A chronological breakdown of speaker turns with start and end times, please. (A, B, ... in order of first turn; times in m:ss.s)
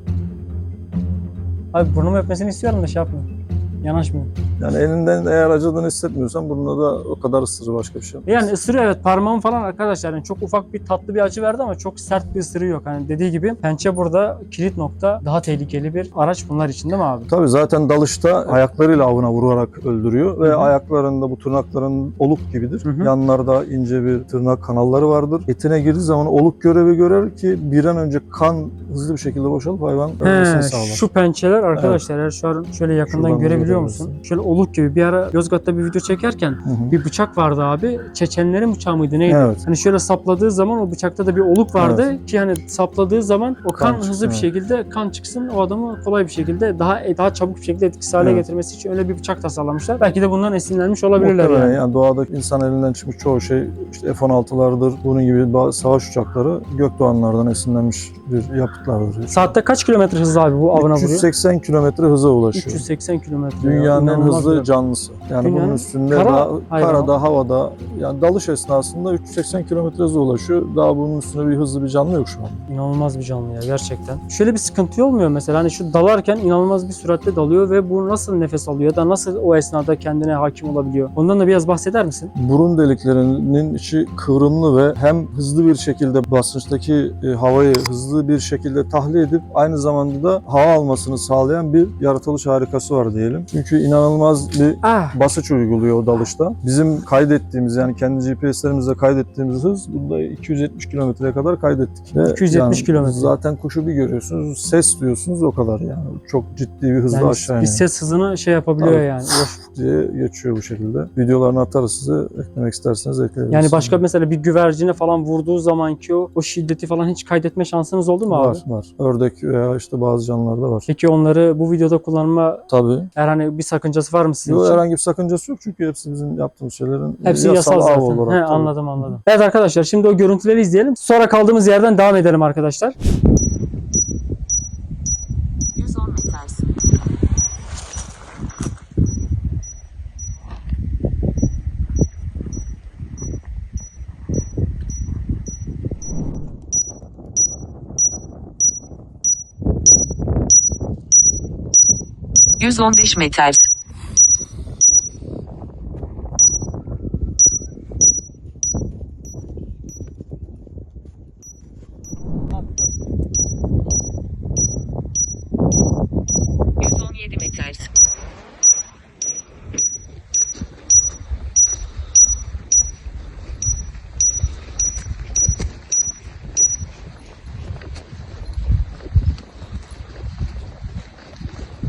0:01.7-0:03.3 A
0:03.8-0:04.3 A
0:04.6-0:08.5 B
0:08.2-0:17.3 A
0:17.3-0:31.0 B
0:20.4-0:20.7 A
0:22.8-0:23.1 A
0:30.2-0:51.8 A
0:31.7-0:32.0 B
0:33.1-0:34.2 B
0:36.6-0:37.0 B
0:39.2-0:39.6 B
0:41.8-0:42.0 B
0:43.8-0:44.5 B
0:48.2-0:48.4 B
0:51.2-0:59.5 B
0:59.3-1:01.3 A
1:00.7-1:02.8 B
1:02.5-1:04.7 A
1:03.6-1:12.6 B
1:05.4-1:07.1 A
1:12.7-1:22.3 A
1:22.3-1:47.8 B
1:34.8-1:35.2 A
1:42.3-1:43.3 A
1:47.1-1:49.6 A
1:48.8-1:54.0 B
1:53.5-1:58.6 A
1:58.3-2:00.9 B
2:00.9-2:04.8 A
2:02.7-2:03.1 B
2:04.4-2:09.2 B
2:07.2-2:12.9 A
2:15.8-2:16.6 C
2:32.6-2:33.5 C
2:46.8-2:47.7 C